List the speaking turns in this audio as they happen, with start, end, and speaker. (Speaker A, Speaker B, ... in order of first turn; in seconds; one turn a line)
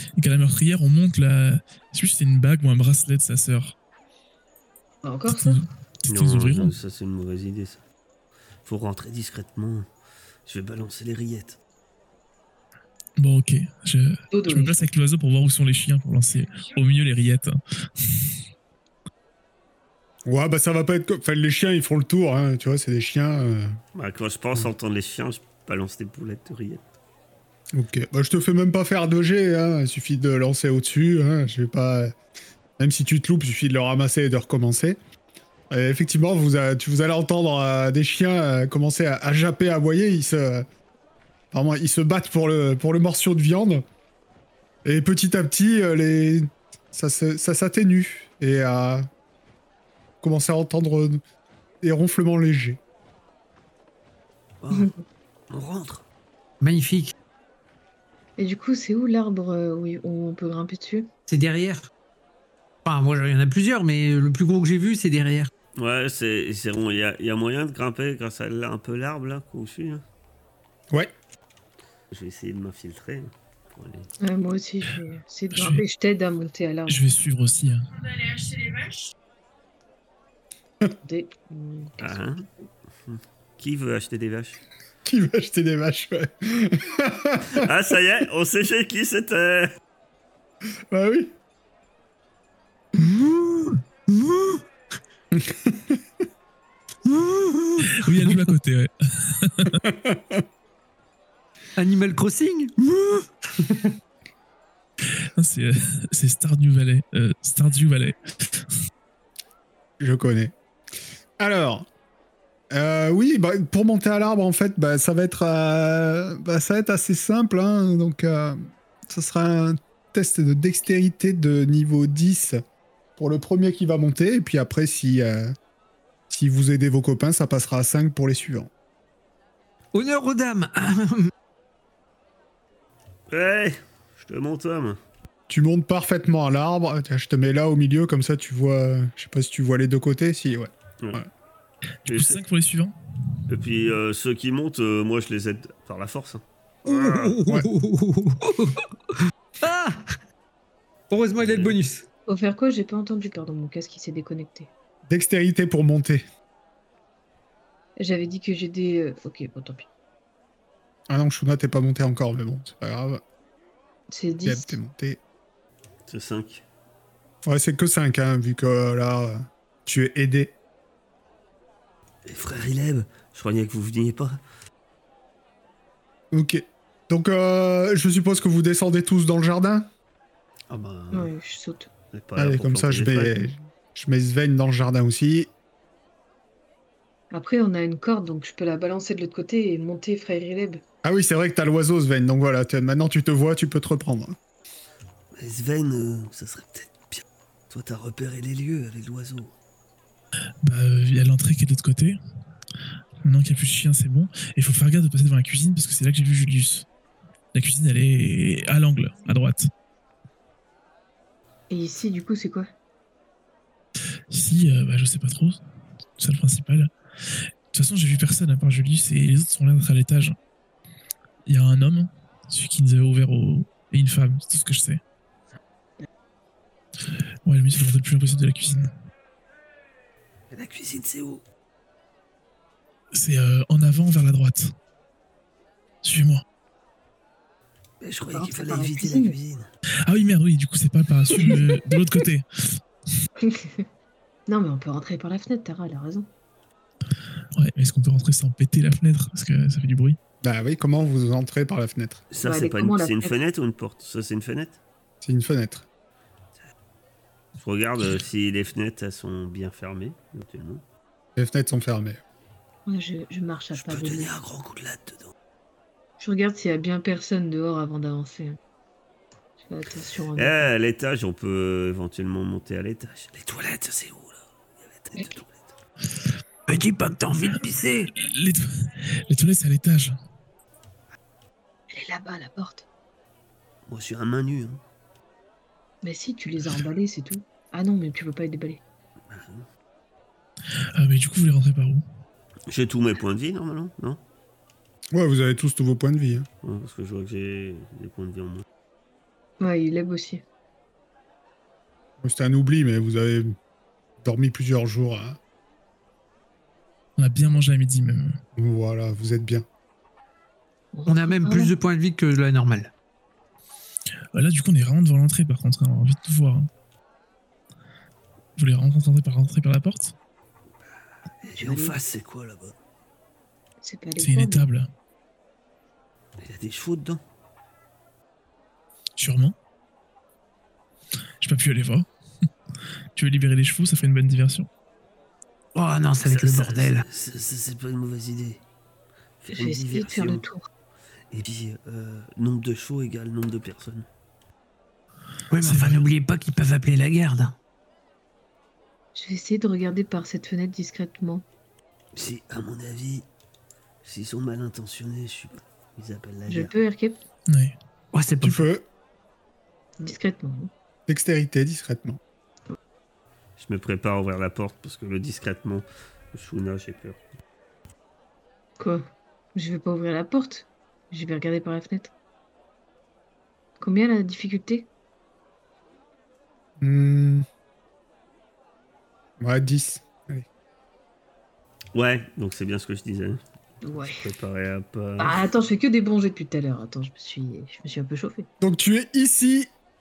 Speaker A: 0.2-3.7
Speaker B: 5.0-5.6
Speaker A: 5.3-6.8
Speaker C: 6.1-7.8
Speaker C: 8.7-9.9
Speaker C: 10.5-11.6
Speaker A: 13.2-18.3
Speaker B: 14.3-14.9
Speaker D: 20.3-23.8
Speaker C: 23.9-26.8
Speaker D: 27.7-32.2
Speaker D: 32.8-35.0
Speaker D: 35.7-40.7
Speaker D: 41.5-43.8
Speaker D: 44.9-49.1
Speaker D: 50.2-51.2
Speaker D: 51.8-52.8
Speaker C: 54.6-54.9
Speaker C: 55.5-56.0
Speaker E: 56.6-57.1
Speaker B: 58.4-61.1
Speaker E: 61.3-61.9
Speaker E: 62.9-65.5
Speaker C: 65.8-70.0
Speaker C: 72.1-74.1
Speaker B: 74.2-77.0
Speaker A: 75.5-75.8
Speaker A: 76.9-79.0
Speaker B: 81.0-82.2
Speaker C: 82.0-82.5
Speaker C: 83.1-84.6
Speaker D: 85.0-87.7
Speaker C: 87.5-89.7
Speaker D: 90.9-91.3
Speaker E: 93.0-94.6
Speaker D: 95.3-96.0
Speaker E: 97.0-98.3
Speaker A: 97.9-99.8
Speaker D: 99.8-100.4
Speaker E: 101.8-103.9
Speaker A: 105.3-108.7
Speaker D: 110.0-110.5
Speaker D: 111.4-111.9
Speaker D: 112.7-122.6
Speaker D: 123.2-125.5
Speaker D: 126.3-128.7
Speaker E: 129.9-131.3
Speaker C: 133.3-135.0
Speaker D: 135.5-141.3
Speaker A: 142.1-142.9
Speaker C: 142.1-142.4
Speaker C: 143.5-147.4
Speaker E: 146.8-150.1
Speaker E: 151.1-152.1
Speaker C: 151.4-151.8
Speaker B: 152.3-154.7
Speaker D: 155.1-156.2
Speaker B: 158.0-159.9
Speaker D: 161.1-163.2
Speaker B: 164.1-164.8
Speaker D: 164.4-165.2
Speaker C: 166.1-166.6
Speaker D: 167.4-170.6
Speaker C: 172.3-174.4
Speaker D: 176.3-179.9
Speaker C: 180.7-181.3
Speaker B: 181.1-181.9
Speaker C: 182.1-183.4
Speaker D: 182.4-185.5
Speaker B: 187.3-190.8
Speaker D: 191.0-194.4
Speaker C: 195.3-199.6
Speaker A: 200.6-202.2
Speaker A: 203.2-206.9
Speaker A: 207.5-209.7
Speaker B: 211.7-212.7
Speaker A: 214.3-215.6
Speaker A: 216.2-216.9
Speaker A: 217.7-220.4
Speaker A: 221.5-225.0
Speaker A: 227.4-228.9
Speaker C: 230.5-231.4
Speaker A: 233.1-234.7
Speaker A: 236.0-236.4
Speaker C: 238.0-239.7
Speaker B: 238.3-239.3
Speaker A: 240.1-242.8
Speaker B: 243.4-243.9
Speaker B: 244.5-246.3
Speaker A: 247.6-250.2
Speaker D: 250.4-252.2
Speaker C: 252.3-254.8
Speaker B: 252.4-253.4
Speaker D: 255.2-255.9
Speaker C: 257.6-260.8
Speaker D: 261.4-262.2
Speaker B: 262.9-264.4
Speaker C: 263.8-265.3
Speaker B: 266.2-268.6
Speaker B: 269.6-270.7
Speaker C: 270.4-275.7
Speaker E: 276.7-278.1
Speaker A: 278.2-280.2
Speaker B: 281.9-282.9
Speaker C: 283.9-284.8
Speaker B: 286.0-288.8
Speaker C: 289.3-289.7
Speaker A: 290.9-292.1
Speaker C: 292.7-294.2
Speaker D: 295.1-296.5
Speaker C: 296.6-298.6
Speaker B: 299.6-300.4
Speaker D: 302.2-303.6
Speaker D: 304.2-305.4
Speaker A: 307.2-308.4
Speaker D: 308.6-309.7
Speaker B: 310.9-311.7
Speaker E: 311.1-312.9
Speaker A: 314.3-316.7
Speaker A: 318.6-320.1
Speaker C: 321.5-322.8
Speaker B: 321.5-322.0
Speaker B: 323.8-324.7
Speaker A: 324.2-324.9
Speaker C: 326.4-327.2
Speaker A: 329.2-329.6
Speaker A: 331.4-332.1
Speaker A: 333.1-334.7
Speaker E: 335.8-337.1
Speaker C: 336.2-338.6
Speaker C: 339.4-340.4
Speaker B: 339.5-340.6
Speaker C: 341.3-344.1
Speaker E: 345.5-347.6
Speaker A: 345.6-346.0
Speaker B: 349.1-351.4
Speaker C: 352.1-353.3
Speaker C: 354.0-356.7
Speaker B: 356.5-357.2
Speaker A: 357.5-357.8
Speaker E: 358.1-358.7
Speaker D: 358.4-358.9
Speaker B: 360.0-360.7
Speaker D: 361.1-362.2
Speaker C: 363.6-367.2
Speaker B: 368.8-369.0
Speaker B: 369.6-372.1
Speaker B: 373.8-374.9
Speaker D: 376.8-377.5
Speaker D: 379.4-380.5
Speaker C: 381.9-383.4
Speaker B: 383.8-384.2
Speaker C: 384.1-385.4
Speaker B: 385.2-388.5
Speaker D: 388.6-389.7